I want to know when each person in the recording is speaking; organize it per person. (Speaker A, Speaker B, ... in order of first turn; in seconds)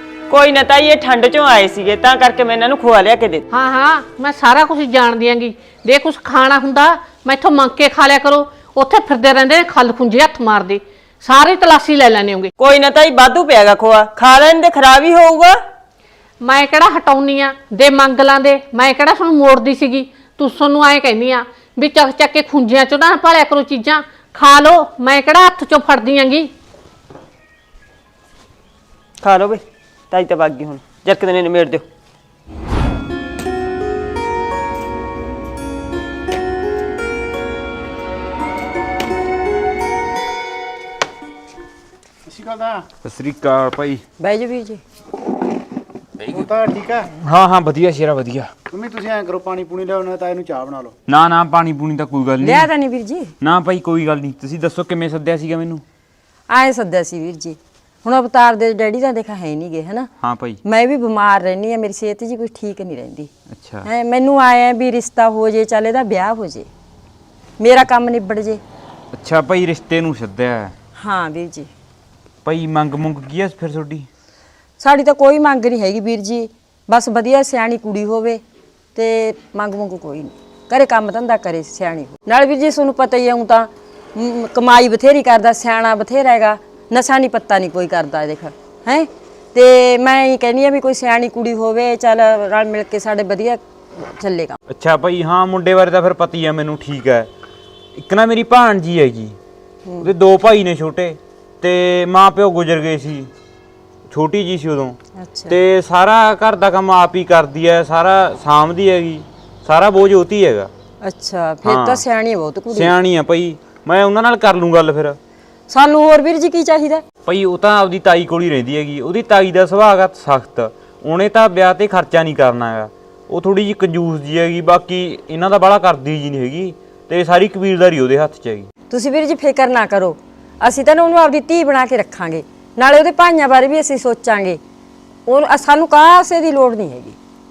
Speaker A: 0.3-3.4, 12.6-15.6, 29.2-31.9
Speaker B: 3.5-12.5, 16.4-26.5
Speaker C: 42.3-42.9, 46.3-47.1, 48.7-51.0
Speaker D: 43.0-44.0, 47.2-48.5, 51.1-52.7, 53.4-55.8, 60.2-60.6, 63.5-63.9, 69.1-70.7, 72.5-74.1, 94.7-97.3, 98.0-99.4, 100.0-103.3, 104.1-105.0, 105.5-110.7, 111.6-112.0, 112.7-115.2, 117.3-128.7
Speaker E: 44.2-44.8, 52.4-53.3, 56.5-60.1, 60.6-63.3, 63.8-66.7, 67.6-68.6, 71.0-71.7, 74.8-78.4, 79.0-94.6, 105.2-105.6, 111.0-112.9, 115.7-117.0, 128.9-134.6, 135.3-137.2